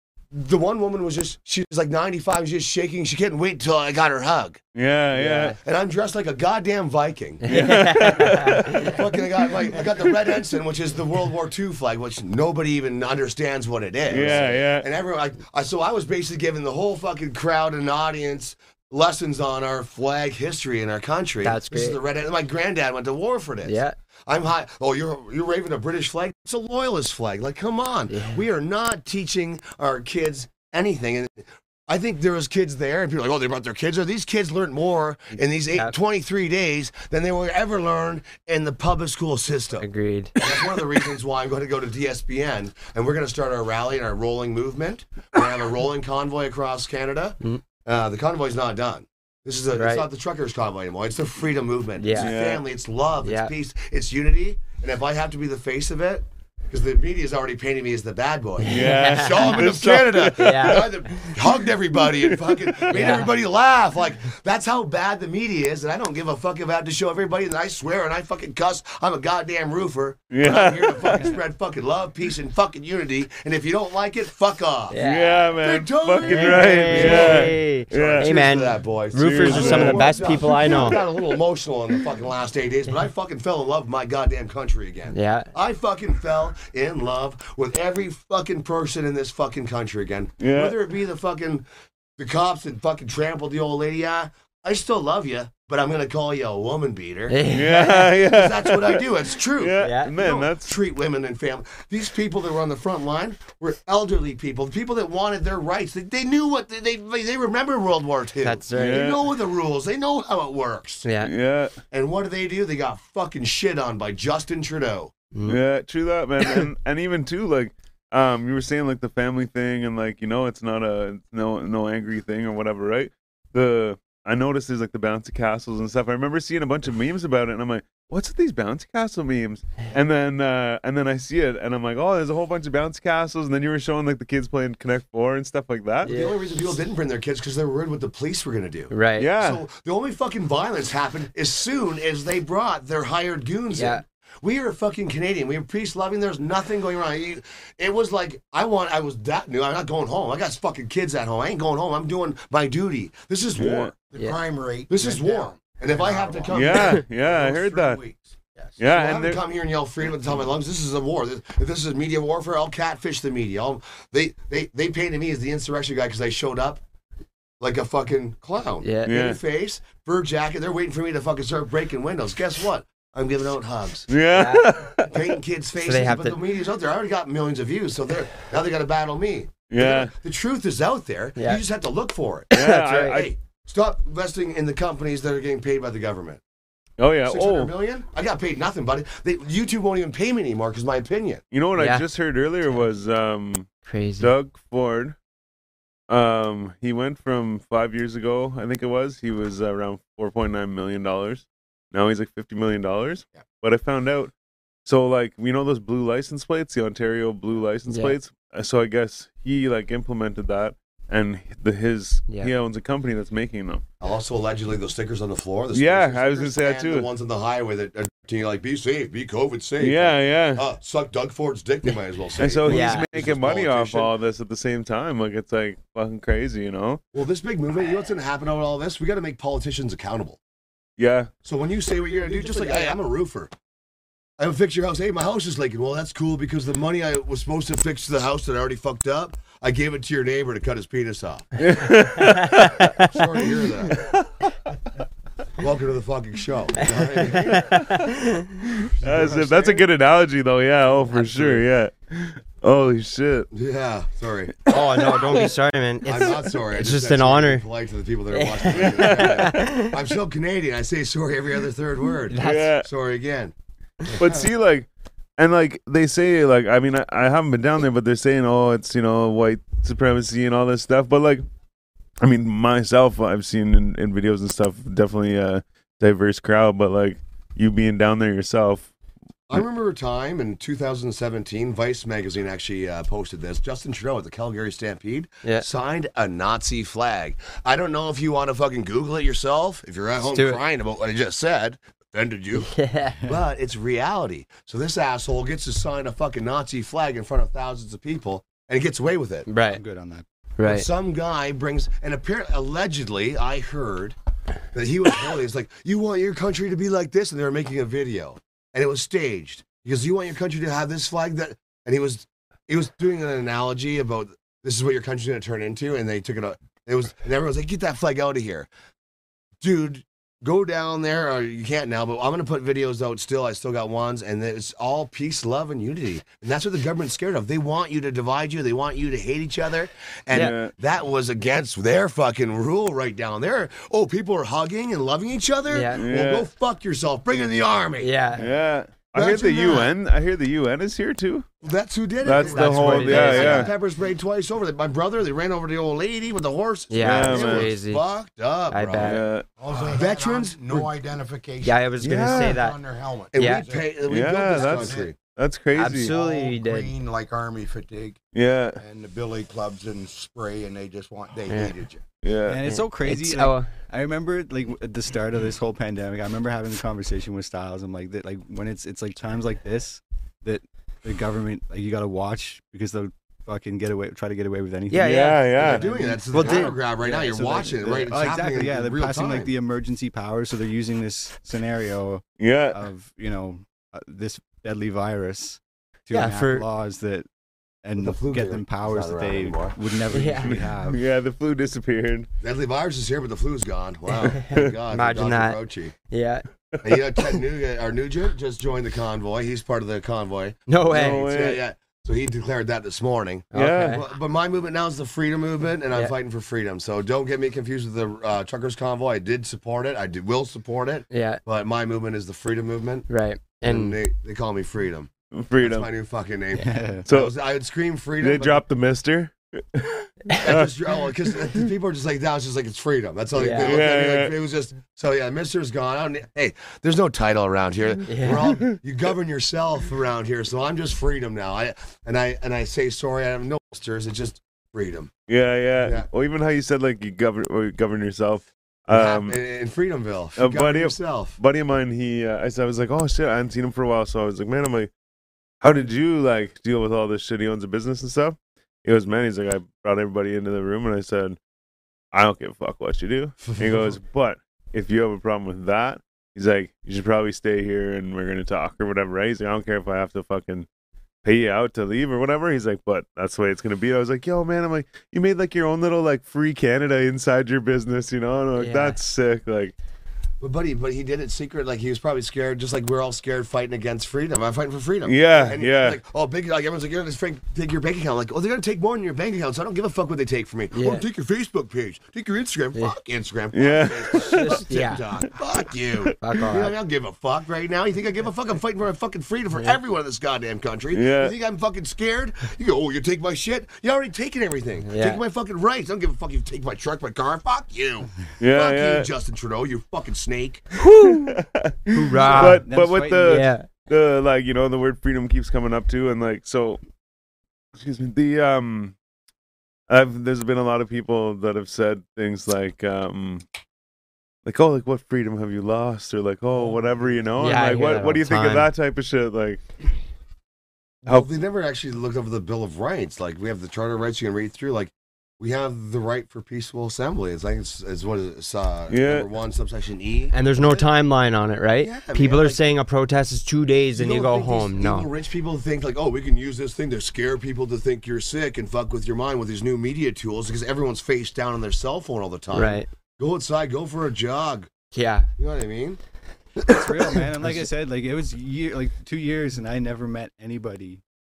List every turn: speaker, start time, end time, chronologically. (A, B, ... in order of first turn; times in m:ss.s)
0:00.3-0:04.6 A
0:04.8-0:05.6 B
0:05.2-0:05.6 C
0:05.2-0:07.4 A
0:07.4-0:09.0 C
0:07.5-0:09.0 B
0:08.5-1:15.0 A
0:14.1-0:14.9 B
0:21.4-0:22.0 C
0:23.6-0:24.0 C
0:28.1-0:28.4 C
0:35.4-0:35.9 C
0:39.8-0:40.4 C
0:49.8-0:50.1 C
0:52.0-0:52.3 C
0:52.1-0:52.6 B
0:53.2-0:53.5 C
0:58.6-1:00.9 B
0:58.6-0:59.8 C
1:00.3-1:01.3 C
1:02.2-1:03.2 B
1:02.9-1:03.3 C
1:10.3-1:11.3 B
1:14.9-1:15.6 C
1:15.0-1:18.3 B
1:15.6-1:31.7 A
1:16.2-1:21.0 C
1:19.2-1:21.4 B
1:25.1-1:25.5 C
1:30.4-1:30.8 B
1:32.2-1:37.4 A
1:37.3-1:38.1 C
1:37.5-1:40.8 B
1:38.2-1:51.1 A
1:39.8-1:40.1 C
1:48.4-1:49.1 C
1:48.8-1:49.2 B
1:51.0-1:51.3 C
1:51.2-1:51.8 B
1:51.9-1:55.1 A
1:55.3-1:55.6 C
1:55.4-2:16.1 B
2:16.0-2:16.4 C
2:16.0-2:33.9 A
2:18.9-2:19.3 C
2:19.2-2:19.6 B
2:23.7-2:24.0 C
2:33.6-2:33.9 B
2:34.1-2:38.8 D
2:34.9-2:37.1 A
2:36.5-2:38.0 B
2:38.8-2:39.4 B
2:38.8-2:46.8 A
2:47.6-2:54.1 A
2:48.8-2:49.1 C
2:49.1-2:49.4 B
2:54.1-2:55.1 B
2:54.3-2:55.0 C
2:55.0-3:06.4 A
2:55.8-2:56.4 C
2:59.7-3:00.1 B
3:01.4-3:01.6 C
3:02.5-3:03.3 C
3:02.5-3:03.3 B
3:07.0-3:07.7 B
3:07.3-3:11.4 A
3:11.5-3:13.7 B
3:11.8-3:12.0 C
3:13.9-3:14.3 C
3:14.2-3:15.2 B
3:16.1-3:24.3 B
3:24.9-3:33.8 B
3:27.9-3:28.2 C
3:34.0-3:44.1 A
3:35.7-3:37.1 B
3:39.8-3:40.6 B
3:42.4-3:47.0 B
3:42.7-3:43.1 C
3:47.1-3:50.4 A
3:51.0-3:51.3 B
3:51.4-3:53.5 A
3:52.1-3:52.4 D
3:52.6-3:52.9 C
3:54.4-4:01.5 A
4:01.6-4:03.1 B
4:02.2-4:03.1 C
4:03.0-4:04.0 A
4:05.6-4:07.8 A
4:06.9-4:08.6 C
4:08.8-4:13.5 B
4:08.9-4:09.8 A
4:11.1-4:11.6 C
4:13.5-4:15.1 A
4:14.7-4:17.7 C
4:16.0-4:23.5 A
4:18.3-4:20.0 C
4:18.7-4:19.6 B
4:22.3-4:22.7 C
4:22.4-4:22.9 B
4:24.1-4:24.5 A
4:24.2-4:31.4 B
4:32.2-4:38.9 B
4:39.5-4:52.7 A
4:50.3-4:50.6 C
4:52.6-4:53.2 C
4:53.3-4:59.5 A
4:59.5-4:59.8 C
4:59.7-5:00.2 E
5:00.6-5:00.9 C
5:00.6-5:04.2 A
5:04.7-5:18.7 A
5:19.6-5:38.1 A
5:30.3-5:30.7 B
5:35.7-5:36.0 C
5:35.9-5:36.5 B
5:38.0-5:38.5 C
5:38.4-5:41.5 B
5:39.2-5:39.9 A
5:41.6-5:50.9 A
5:42.2-5:43.7 B
5:42.4-5:43.7 C
5:46.9-5:48.0 C
5:47.0-5:47.7 B
5:48.7-5:49.2 C
5:49.0-5:49.4 B
5:49.6-5:55.1 D
5:51.6-5:52.8 C
5:52.0-5:52.6 B
5:53.3-5:53.6 C
5:53.3-5:55.2 A
5:54.1-5:56.1 B
5:55.7-5:56.9 C
5:56.0-5:58.2 D
5:58.3-5:58.8 B
5:58.8-6:02.0 D
6:01.5-6:01.8 C
6:02.2-6:02.6 B
6:02.5-6:27.3 E
6:02.6-6:03.7 C
6:14.9-6:15.5 C
6:15.0-6:15.8 B
6:15.6-6:19.5 A
6:16.3-6:16.8 C
6:22.4-6:22.8 B
6:26.1-6:26.7 C
6:27.8-6:31.0 E
6:28.0-6:29.8 A
6:30.1-6:30.6 C
6:30.5-6:32.3 B
6:32.4-6:36.0 A
6:34.4-6:36.4 C
6:36.8-6:53.1 A
6:40.7-6:41.2 C
6:40.9-6:41.6 B
6:43.5-6:44.0 C
6:43.5-6:44.0 B
6:51.1-6:51.4 C
6:53.1-6:54.0 C
6:53.6-6:55.1 A
6:55.3-6:55.9 B
6:55.6-6:58.6 A
6:56.5-6:57.1 E
6:57.1-6:57.3 B
6:58.2-7:01.3 B
7:00.4-7:15.1 A
7:03.3-7:03.8 C
7:03.6-7:04.3 B
7:08.1-7:08.6 C
7:08.3-7:08.8 B
7:15.3-7:19.4 B
7:15.8-7:16.1 A
7:18.9-7:21.4 A
7:20.4-7:24.9 B
7:25.6-7:31.4 B
7:32.1-7:40.7 B
7:33.4-7:34.0 A
7:41.2-7:49.8 B
7:48.6-7:49.0 C
7:50.4-8:20.6 A
7:55.0-7:56.0 B
8:00.7-8:01.0 C
8:03.5-8:04.6 B
8:04.2-8:05.0 C
8:06.2-8:06.8 C
8:10.9-8:11.3 B
8:14.8-8:15.2 C
8:18.4-8:19.1 B
8:20.8-8:21.3 C
8:20.8-8:26.8 B
8:21.9-8:22.7 C
8:22.2-8:23.5 E
8:23.2-8:23.7 C
8:27.8-8:29.0 B
8:29.9-8:33.4 B
8:34.4-8:39.6 B
8:37.4-8:38.7 C
8:41.0-8:50.8 A
8:48.9-8:49.3 B
8:50.3-8:55.1 C
8:51.8-8:52.6 A
8:54.0-9:04.7 A
9:02.5-9:02.9 C
9:04.9-9:05.3 C
9:05.4-9:06.0 A
9:06.6-9:07.7 A
9:06.7-9:11.0 E